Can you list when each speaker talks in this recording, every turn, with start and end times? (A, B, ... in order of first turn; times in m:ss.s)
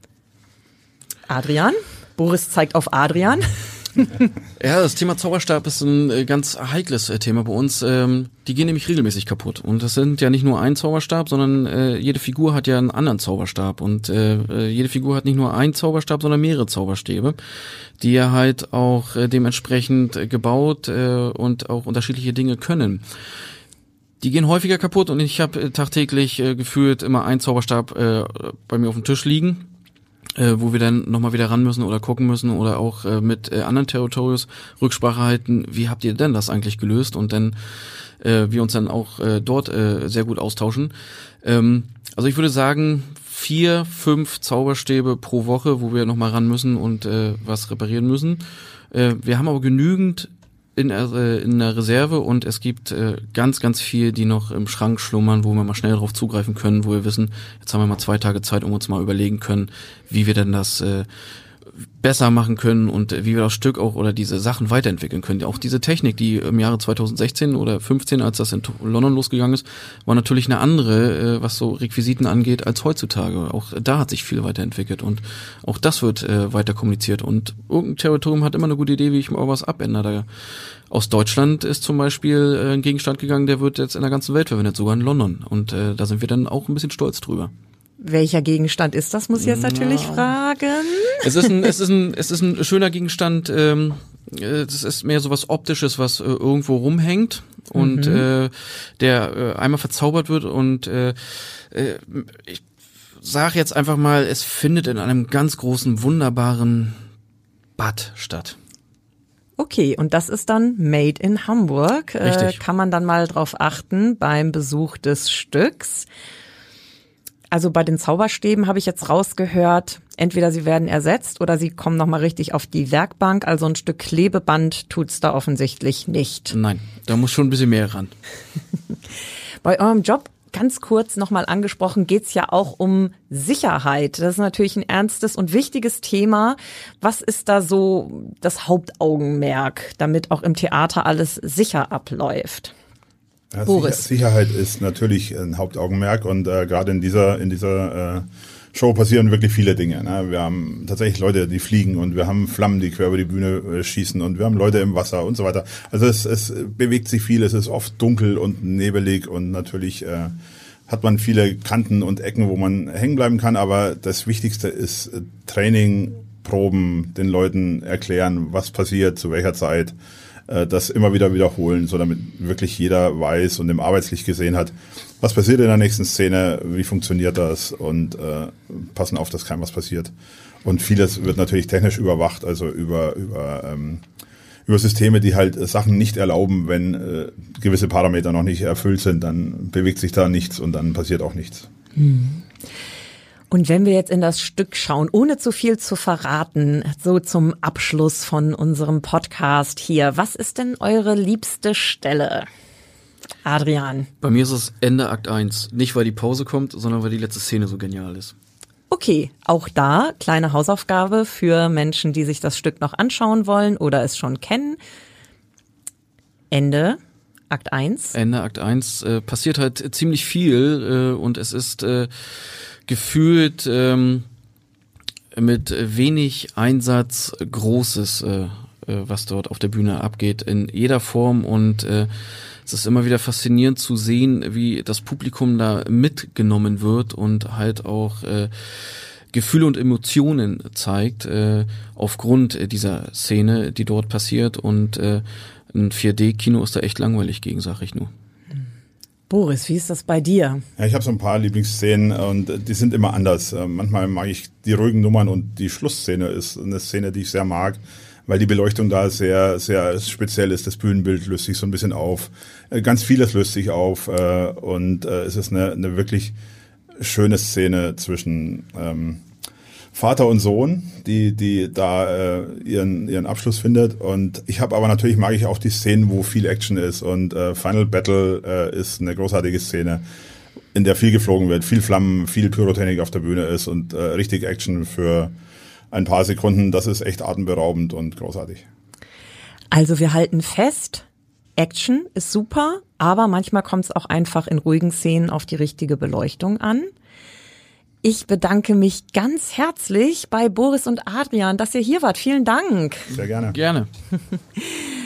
0:01.3-0:04.3 A
0:04.6-0:17.4 B
0:18.0-0:23.0 B
0:24.2-0:29.7 B
0:30.4-0:37.6 B
0:38.2-0:40.9 B
0:41.4-1:01.1 B
1:02.0-1:20.3 B
1:20.9-1:27.5 B
1:28.0-1:31.5 A
1:29.4-1:30.3 B
1:31.2-1:42.6 B
1:37.8-1:38.2 A
1:43.2-1:47.0 B
1:47.8-1:48.6 B
1:49.6-1:56.1 A
1:52.2-1:52.6 B
1:57.5-2:06.6 A
2:06.5-2:08.1 B
2:09.6-2:22.7 A
2:23.5-2:40.3 C
2:23.7-2:24.1 A
2:40.9-2:49.9 C
2:50.5-3:00.1 C
3:00.6-3:04.0 C
3:04.7-3:11.7 C
3:12.0-3:12.5 A
3:13.5-3:22.5 A
3:23.5-3:24.1 A
3:24.2-3:28.4 B
3:28.9-3:34.8 A
3:36.5-3:37.0 A
3:37.5-3:38.2 A
3:38.2-3:42.3 B
3:42.9-3:44.2 B
3:45.3-3:52.1 B
3:52.7-4:08.1 B
4:09.3-4:10.6 A
4:10.8-4:26.4 C
4:27.0-4:29.2 C
4:29.9-4:40.0 C
4:40.7-4:45.3 C
4:45.9-4:48.6 C
4:49.7-4:51.1 A
4:51.6-4:56.9 A
4:58.0-5:03.1 A
5:03.1-5:03.6 C
5:03.5-5:03.9 B